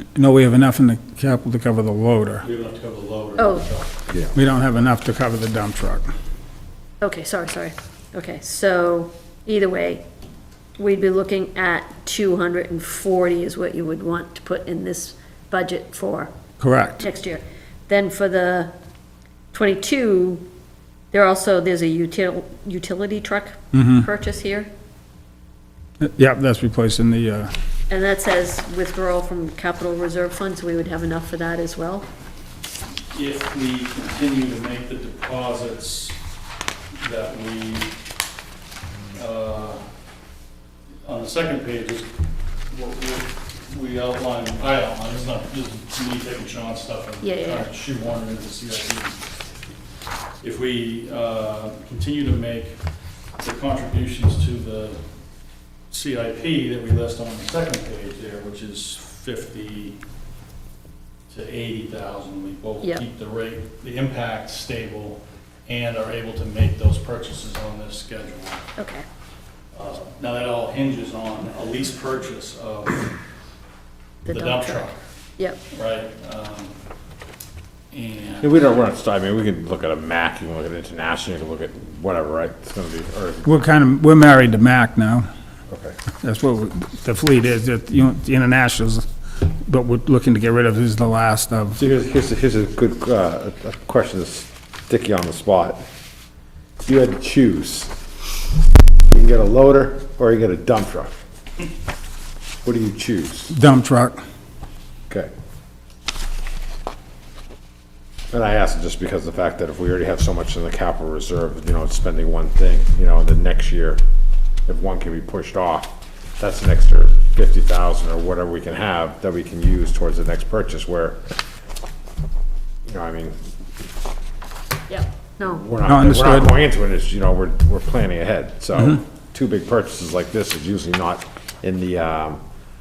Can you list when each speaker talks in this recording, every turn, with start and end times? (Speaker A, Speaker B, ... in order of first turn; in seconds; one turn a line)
Speaker A: 0.1-2.5
Speaker B: 2.4-3.9
Speaker C: 3.4-3.6
Speaker A: 4.3-6.1
Speaker C: 7.0-10.0
Speaker C: 10.8-16.3
Speaker A: 16.6-17.0
Speaker C: 17.0-18.7
Speaker C: 19.5-20.4
Speaker C: 21.1-24.7
Speaker A: 23.7-24.0
Speaker A: 26.0-27.5
Speaker C: 27.9-32.0
Speaker B: 33.1-36.2
Speaker B: 37.0-37.9
Speaker B: 39.1-39.8
Speaker B: 41.0-42.1
Speaker B: 42.7-49.2
Speaker C: 47.2-47.7
Speaker B: 50.4-52.8
Speaker B: 53.4-55.0
Speaker B: 55.9-60.0
Speaker B: 61.3-68.7
Speaker C: 68.8-69.0
Speaker B: 69.7-73.2
Speaker C: 74.2-75.6
Speaker B: 74.3-75.0
Speaker B: 75.7-76.7
Speaker B: 77.9-78.9
Speaker D: 78.4-83.4
Speaker A: 83.4-85.3
Speaker D: 85.7-86.0
Speaker A: 86.2-91.8
Speaker D: 91.8-95.8
Speaker D: 96.8-97.9
Speaker D: 99.1-101.1
Speaker D: 102.6-103.5
Speaker A: 103.5-104.2
Speaker D: 108.3-114.0
Speaker D: 114.7-121.2
Speaker D: 122.8-123.4
Speaker C: 124.9-125.6
Speaker D: 125.6-132.4
Speaker A: 125.8-126.5